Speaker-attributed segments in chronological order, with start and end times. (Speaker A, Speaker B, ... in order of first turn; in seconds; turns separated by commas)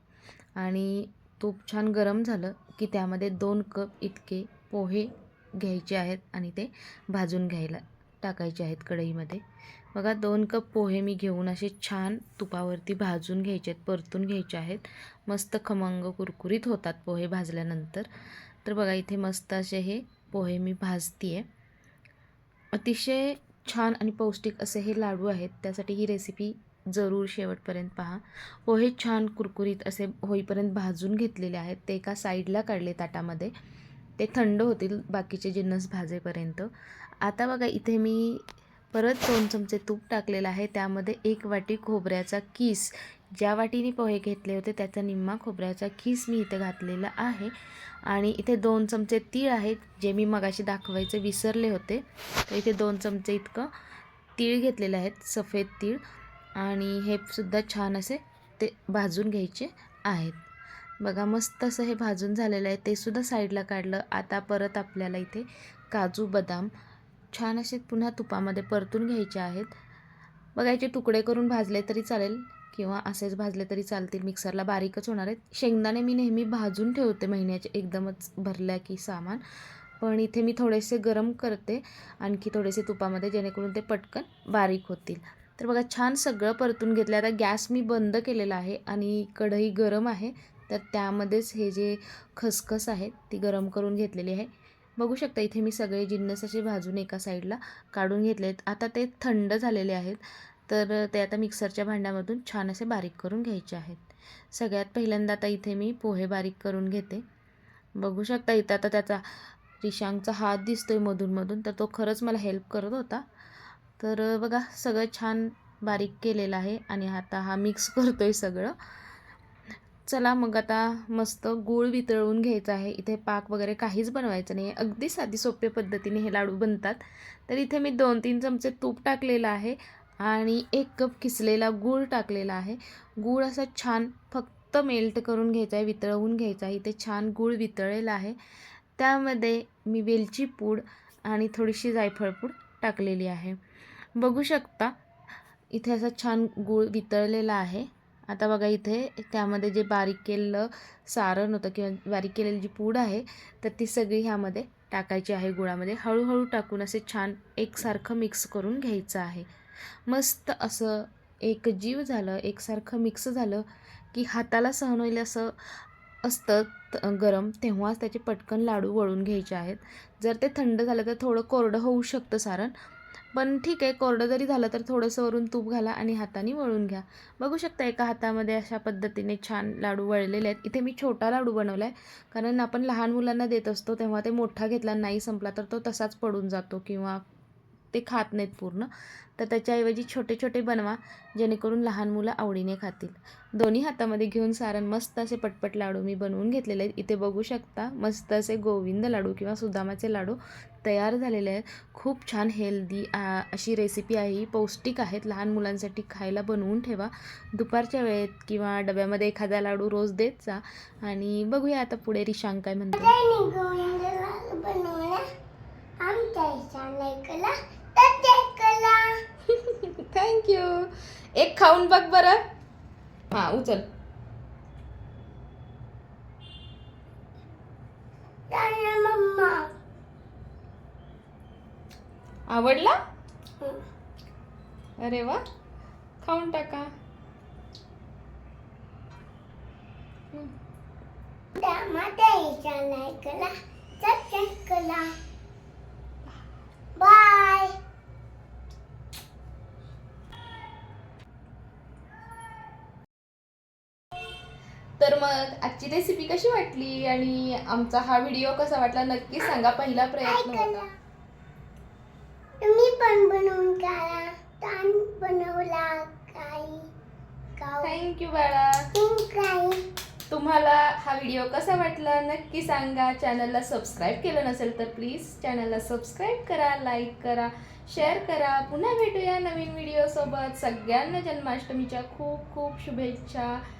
Speaker A: 0.6-18.1, Speaker A: 18.6-21.4, Speaker A: 22.7-33.5, Speaker A: 34.2-36.7, Speaker A: 37.2-47.5, Speaker A: 48.0-53.7, Speaker A: 54.4-56.0, Speaker A: 56.6-60.4, Speaker A: 61.0-66.7, Speaker A: 67.3-69.7, Speaker A: 70.5-79.4, Speaker A: 80.0-107.2, Speaker A: 108.0-109.2, Speaker A: 109.8-113.2, Speaker A: 114.0-118.7, Speaker A: 120.0-138.4, Speaker A: 139.0-143.6, Speaker A: 144.2-144.9, Speaker A: 145.7-159.5, Speaker A: 160.1-172.7, Speaker A: 173.3-187.2, Speaker A: 187.9-213.1, Speaker B: 213.0-215.2, Speaker B: 216.0-219.1, Speaker A: 219.5-222.4, Speaker A: 223.3-223.8, Speaker B: 228.5-229.7, Speaker A: 232.5-232.9, Speaker A: 235.0-235.4, Speaker A: 236.2-236.9, Speaker B: 241.6-245.1, Speaker B: 247.0-247.7, Speaker A: 255.0-260.9, Speaker B: 260.2-260.9, Speaker B: 262.6-266.9, Speaker B: 267.6-268.0, Speaker A: 267.8-268.9, Speaker B: 268.9-269.8, Speaker A: 270.3-283.6